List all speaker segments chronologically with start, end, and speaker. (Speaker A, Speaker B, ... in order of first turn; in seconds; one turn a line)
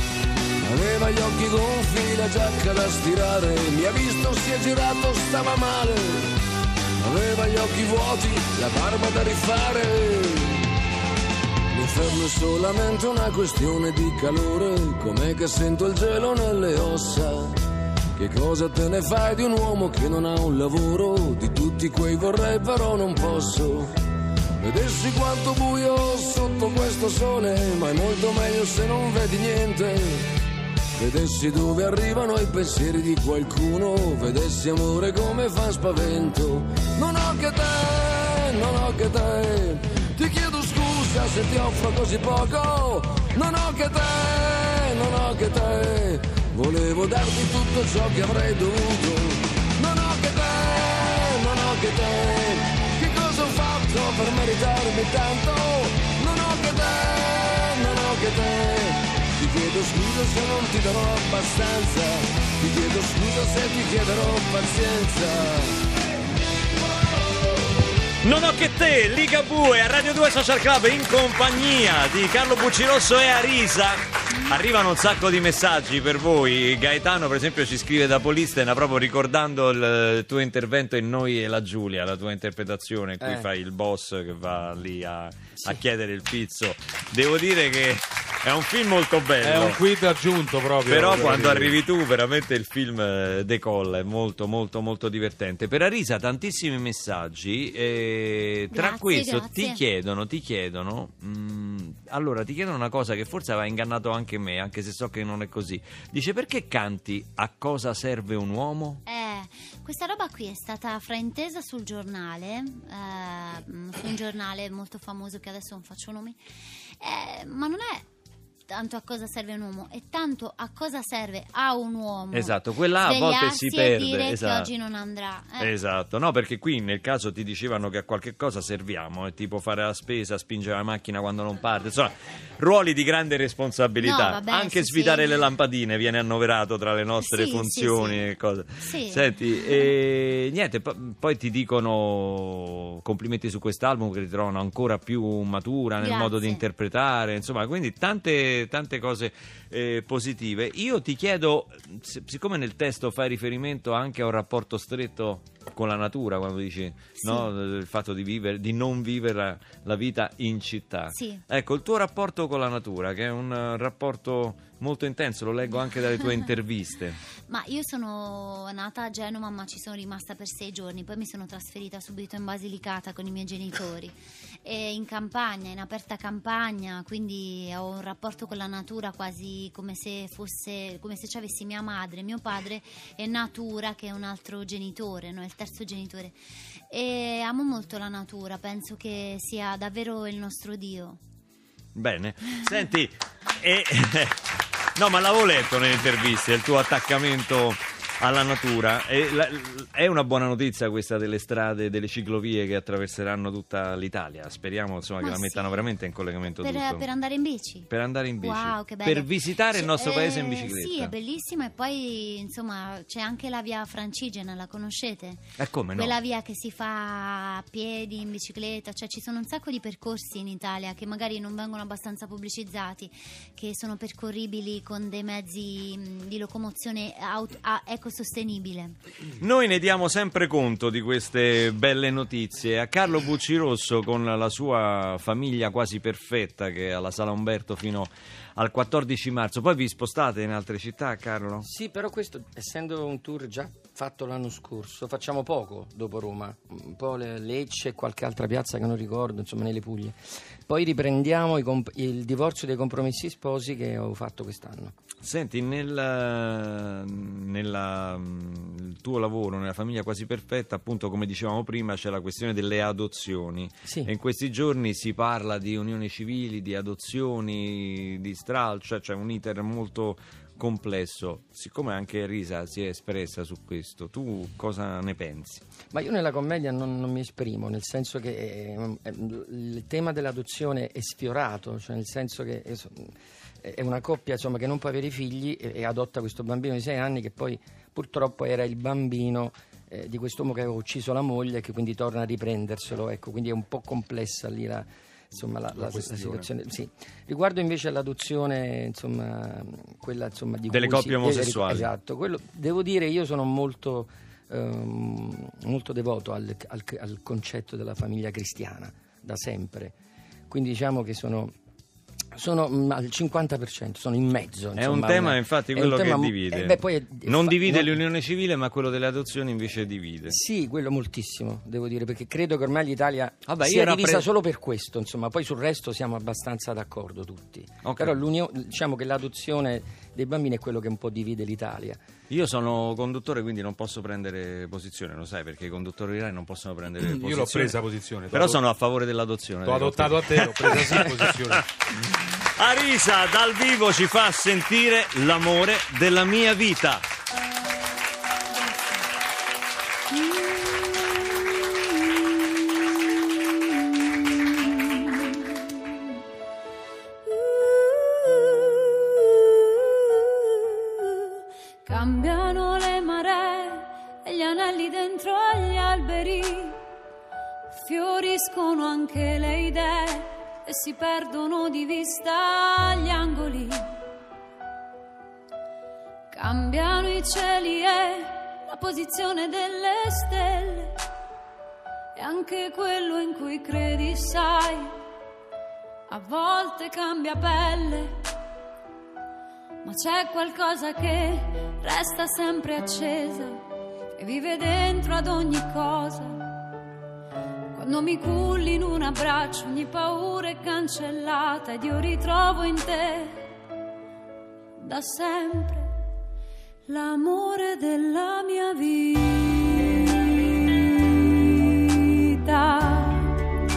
Speaker A: 0.6-6.3
Speaker A: 7.0-10.7
Speaker A: 11.7-17.6
Speaker A: 18.2-23.9
Speaker A: 24.6-30.3
Speaker A: 31.0-65.8
Speaker B: 68.2-89.8
Speaker C: 83.2-83.5
Speaker D: 89.4-91.8
Speaker B: 90.9-109.0
Speaker E: 98.7-99.8
Speaker E: 109.1-116.4
Speaker E: 116.9-118.1
Speaker E: 118.7-125.7
Speaker B: 122.3-124.7
Speaker B: 125.6-167.2
Speaker E: 134.0-135.3
Speaker E: 137.2-138.3
Speaker E: 138.8-139.9
Speaker E: 146.0-146.6
Speaker E: 157.2-157.5
Speaker E: 161.1-161.4
Speaker E: 167.5-186.4
Speaker E: 186.9-191.2
Speaker B: 191.9-194.4
Speaker B: 195.0-207.1
Speaker E: 205.2-205.8
Speaker E: 206.6-207.9
Speaker B: 207.9-211.1
Speaker E: 208.4-215.4
Speaker B: 215.6-216.2
Speaker E: 216.0-229.0
Speaker B: 229.4-241.7
Speaker C: 241.6-254.9
Speaker B: 255.2-275.7
Speaker C: 263.9-264.1
Speaker C: 275.9-310.0
Speaker D: 295.8-296.5
Speaker B: 300.7-301.9
Speaker C: 310.5-311.5
Speaker C: 312.4-318.0
Speaker B: 314.8-320.4
Speaker C: 320.3-332.0
Speaker B: 323.5-324.3
Speaker B: 327.8-328.2
Speaker B: 332.3-337.8
Speaker D: 337.0-338.6
Speaker B: 338.3-342.0
Speaker D: 339.6-341.6
Speaker B: 342.6-347.1
Speaker F: 354.6-355.4
Speaker F: 357.3-361.3
Speaker F: 361.9-366.8
Speaker F: 367.7-373.8
Speaker F: 376.3-380.9
Speaker F: 382.2-384.9
Speaker F: 386.1-388.1
Speaker F: 389.8-393.6
Speaker F: 394.2-396.5
Speaker F: 397.8-403.4
Speaker F: 404.8-405.9
Speaker F: 406.9-413.4